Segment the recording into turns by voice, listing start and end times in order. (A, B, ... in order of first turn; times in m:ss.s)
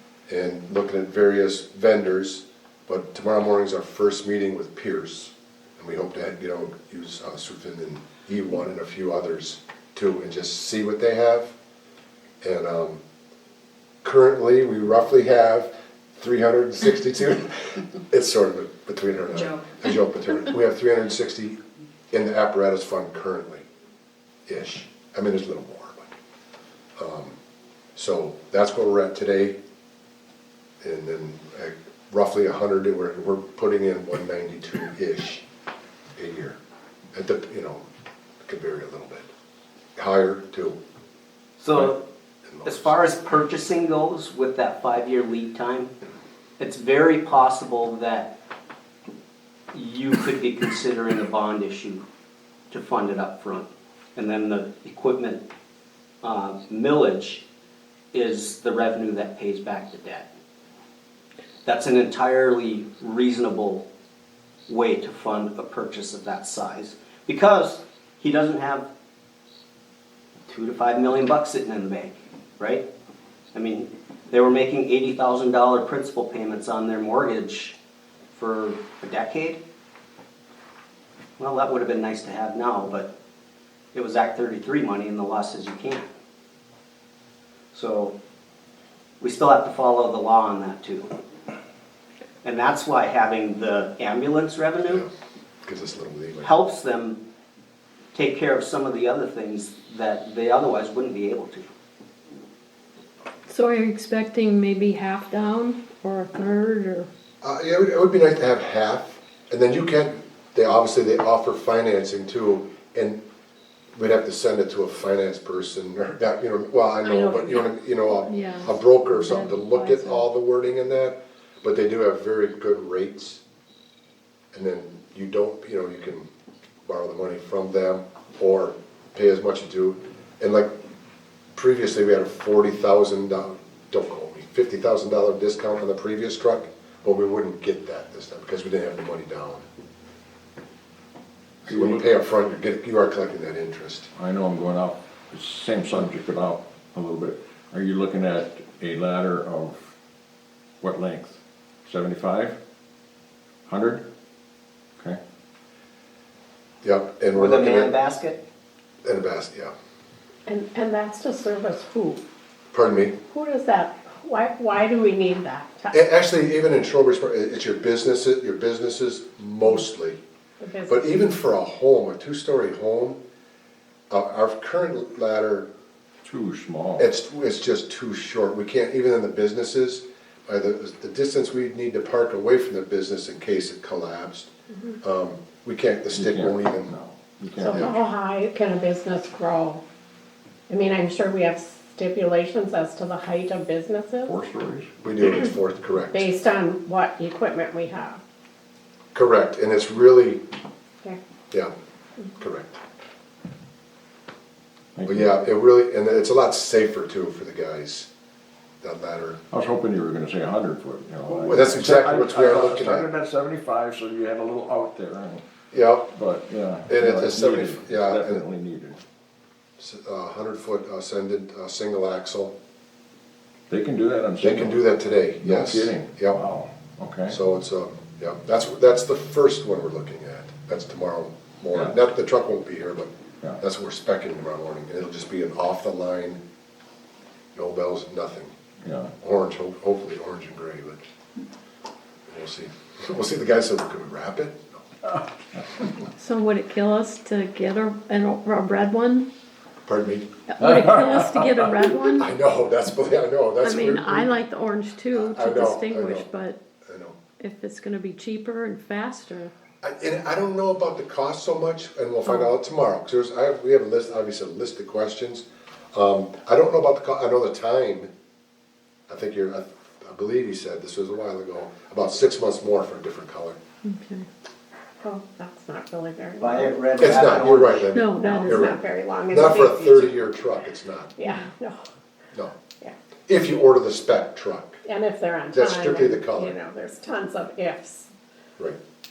0:00.3-0:11.5 A
0:12.4-0:13.0 A
0:14.0-0:21.6 A
0:22.1-0:23.6 A
0:24.5-0:26.1 A
0:27.0-0:27.4 A
0:28.0-0:29.6 A
0:30.8-0:35.4 A
0:36.2-0:36.6 A
0:37.1-0:37.8 A
0:38.4-0:39.3 A
0:40.0-0:40.8 A
0:41.6-0:42.0 B
0:42.4-0:42.9 A
0:42.6-0:45.9 B
0:46.6-0:48.3 B
0:49.7-0:52.0 B
0:52.7-0:55.4 B
0:56.2-0:57.4 B
0:58.1-1:00.3 B
1:01.6-1:03.8 B
1:04.7-1:08.9 B
1:10.5-1:12.9 B
1:13.5-1:17.8 B
1:18.3-1:19.6 B
1:21.4-1:23.1 B
1:23.9-1:26.1 B
1:27.7-1:28.2 B
1:29.2-1:31.2 B
1:32.4-1:35.0 B
1:35.6-1:36.5 A
1:36.4-1:37.2 B
1:38.1-1:41.7 B
1:43.5-1:47.1 C
1:47.4-1:53.2 A
1:53.9-2:03.4 A
1:58.2-2:00.3 C
2:04.5-2:06.3 A
2:06.8-2:10.7 A
2:11.5-2:19.6 A
2:21.6-2:24.1 A
2:21.7-2:22.1 D
2:24.1-2:30.0 D
2:30.8-2:32.6 D
2:33.6-2:34.0 D
2:36.8-2:37.9 A
2:37.4-2:38.4 B
2:39.0-2:39.7 A
2:40.4-2:42.2 E
2:42.7-2:43.2 A
2:43.3-2:45.9 E
2:45.9-2:50.2 A
2:50.6-2:51.0 E
2:50.9-2:53.2 A
2:54.1-2:55.7 A
2:56.2-2:57.1 D
2:57.0-3:04.5 A
3:05.0-3:06.9 A
3:06.1-3:07.9 D
3:07.6-3:09.8 E
3:07.7-3:08.0 A
3:10.7-3:14.4 E
3:14.2-3:14.9 D
3:15.0-3:16.3 A
3:16.1-3:18.2 E
3:19.1-3:20.4 A
3:22.4-3:22.8 A
3:25.0-3:25.3 D
3:25.0-3:28.1 A
3:28.8-3:29.4 A
3:29.5-3:35.4 D
3:31.3-3:33.1 A
3:35.7-3:36.1 A
3:36.1-3:39.0 D
3:36.9-3:38.4 A
3:39.8-3:42.5 A
3:43.7-3:44.9 D
3:44.4-3:46.4 A
3:45.4-3:47.4 D
3:47.3-3:56.4 A
3:57.5-3:58.5 A
3:58.8-3:59.1 D
3:59.2-4:01.0 A
4:02.3-4:04.8 A
4:06.2-4:09.3 C
4:09.8-4:10.3 A
4:10.5-4:12.3 C
4:12.0-4:14.3 A
4:13.6-4:16.6 C
4:15.1-4:16.2 A
4:16.8-4:17.2 A
4:17.4-4:19.5 C
4:19.8-4:28.1 A
4:29.1-4:33.6 A
4:33.8-4:34.2 C
4:35.0-4:37.5 E
4:36.4-4:37.9 B
4:37.0-4:41.2 A
4:37.9-4:38.7 C
4:38.1-4:40.2 E
4:41.2-4:41.9 E
4:43.3-4:44.8 A
4:44.8-4:48.1 E
4:45.5-4:46.5 A